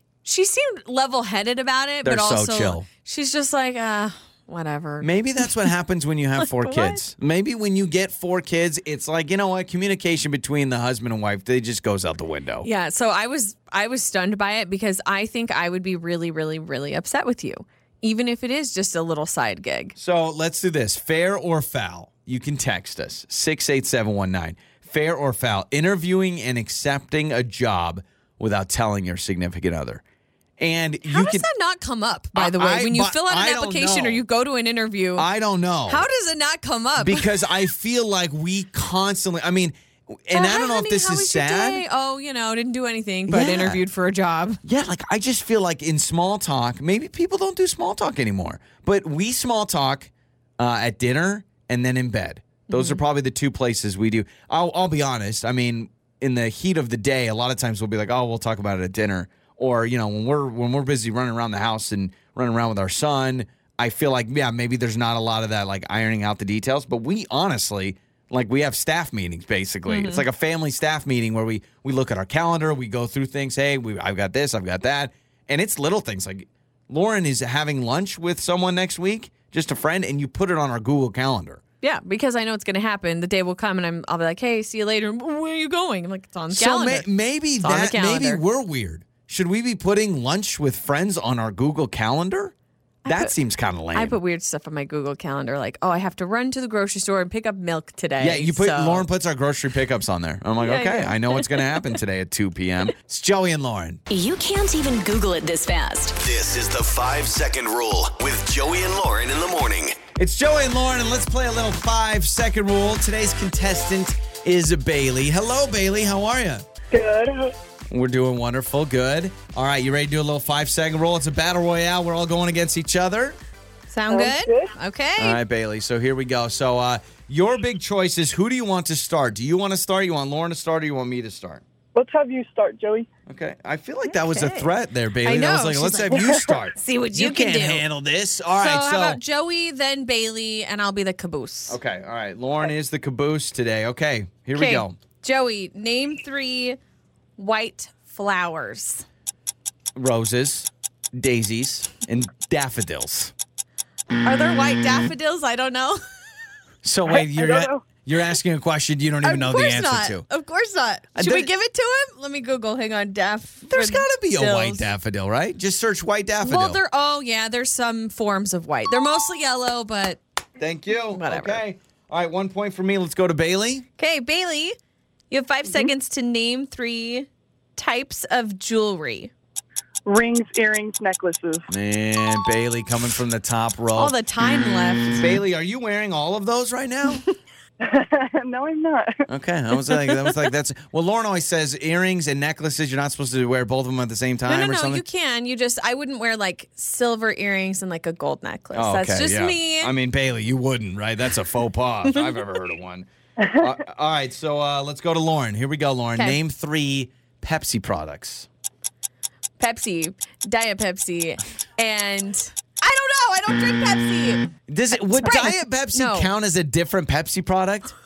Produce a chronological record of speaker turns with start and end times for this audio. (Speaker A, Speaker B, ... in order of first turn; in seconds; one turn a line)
Speaker A: 0.2-5.7
Speaker B: 2.0-2.9
Speaker B: 5.0-12.7
Speaker A: 6.4-7.0
Speaker A: 12.6-19.9
Speaker B: 20.0-30.0
Speaker B: 30.6-31.5
Speaker A: 31.1-35.3
Speaker B: 32.4-34.2
Speaker B: 35.2-36.0
Speaker A: 35.9-37.6
Speaker B: 37.0-41.8
Speaker A: 40.3-44.6
Speaker B: 43.3-43.8
Speaker B: 44.6-81.6
Speaker A: 52.7-53.0
Speaker A: 69.9-70.2
Speaker A: 81.8-87.1
Speaker B: 86.5-92.5
Speaker A: 87.6-88.4
Speaker A: 93.0-93.3
Speaker B: 93.1-94.2
Speaker A: 93.9-99.1
Speaker B: 98.2-104.0
Speaker A: 100.6-101.8
Speaker C: 104.1-106.2
Speaker D: 106.2-110.0
Speaker B: 110.2-116.7
Speaker E: 116.9-117.5
Speaker B: 117.9-123.4
Speaker A: 123.9-125.4
Speaker E: 124.1-124.7
Speaker B: 125.2-131.6
Speaker E: 131.9-133.1
Speaker B: 133.3-139.2
Speaker A: 134.1-134.7
Speaker A: 135.2-137.8
Speaker E: 136.1-136.6
Speaker A: 138.6-141.8
Speaker B: 141.7-145.0
Speaker A: 144.5-146.8
Speaker A: 147.4-149.1
Speaker B: 149.9-153.3
Speaker A: 154.2-156.0
Speaker B: 156.8-160.2
Speaker E: 157.2-157.8
Speaker A: 159.2-164.9
Speaker B: 161.2-161.5
Speaker B: 163.7-166.8
Speaker A: 166.4-170.2
Speaker B: 170.6-173.9
Speaker A: 171.1-171.6
Speaker A: 174.0-174.8
Speaker A: 175.3-179.3
Speaker E: 180.1-181.7
Speaker B: 181.7-184.2
Speaker A: 184.0-185.3
Speaker B: 185.1-187.2
Speaker E: 187.8-189.2
Speaker B: 189.3-195.0
Speaker A: 189.8-190.3
Speaker A: 194.5-199.9
Speaker B: 198.7-208.5
Speaker A: 209.6-216.3
Speaker B: 214.7-217.9